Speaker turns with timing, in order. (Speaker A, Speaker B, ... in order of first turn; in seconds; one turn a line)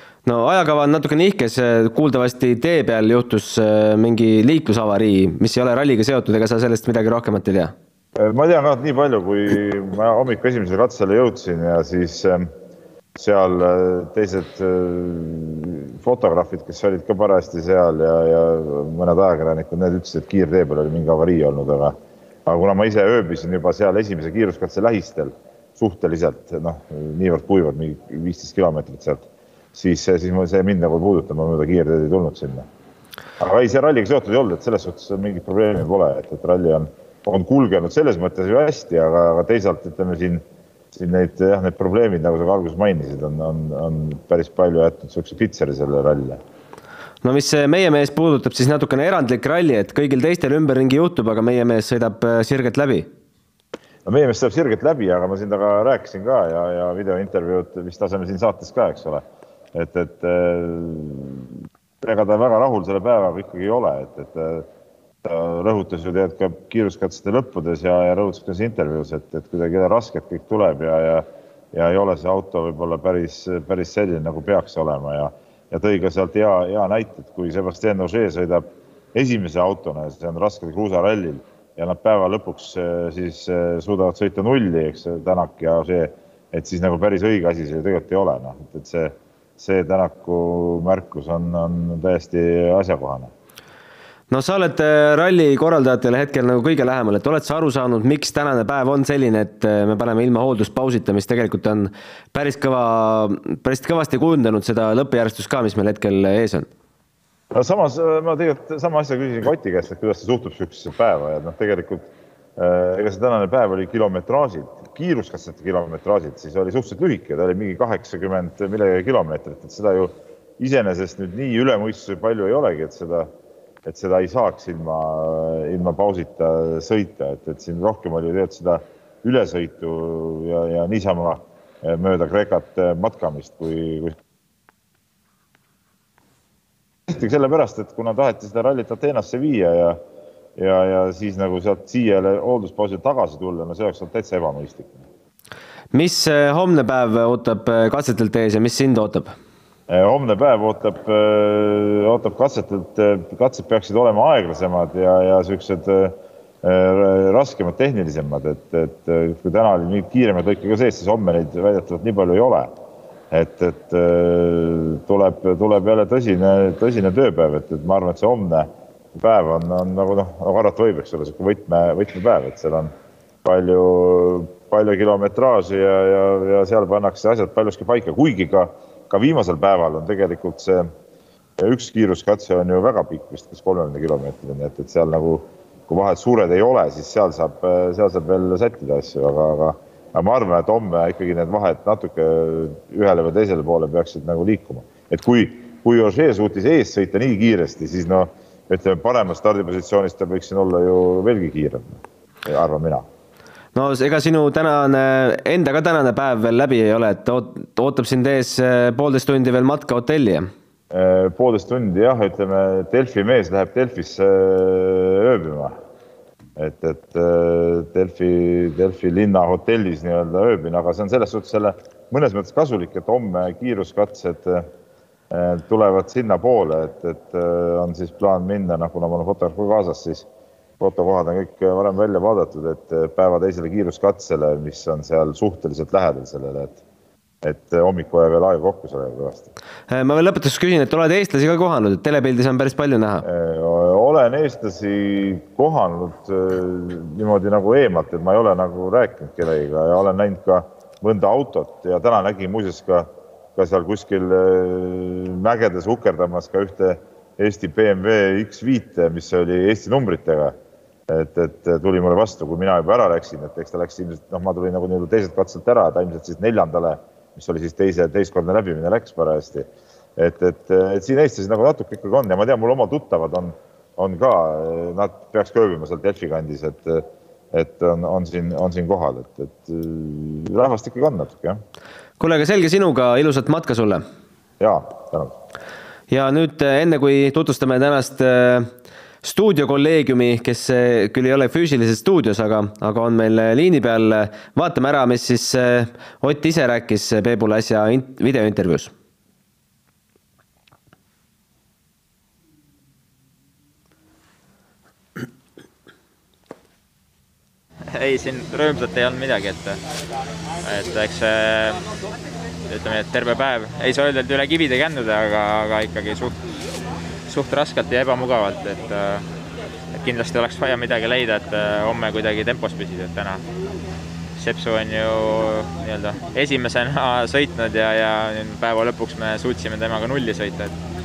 Speaker A: 0.2-7.7
Speaker B: 8.2-12.5
Speaker B: 13.1-32.7
Speaker B: 33.4-46.4
Speaker A: 47.2-53.1
Speaker B: 54.0-61.5
Speaker B: 62.0-64.7
Speaker B: 65.2-93.3
Speaker A: 94.3-106.7
Speaker B: 107.5-123.3
Speaker B: 123.8-134.2
Speaker B: 137.1-140.0
Speaker B: 140.6-145.1
Speaker A: 145.9-149.3
Speaker B: 149.9-162.7
Speaker B: 163.3-172.9
Speaker B: 173.4-180.9
Speaker B: 181.6-203.1
Speaker A: 203.7-210.5
Speaker B: 210.9-215.8
Speaker B: 216.6-224.7
Speaker B: 225.3-230.3
Speaker B: 230.8-236.8
Speaker B: 237.4-239.5
Speaker A: 239.9-243.2
Speaker B: 243.2-260.6
Speaker B: 261.1-281.6
Speaker A: 282.2-284.0
Speaker B: 284.6-285.4
Speaker A: 286.1-288.7
Speaker A: 289.2-298.9
Speaker C: 307.9-309.8
Speaker C: 310.6-311.8
Speaker C: 312.7-316.4
Speaker C: 317.3-319.2
Speaker C: 319.9-323.4
Speaker C: 324.4-330.7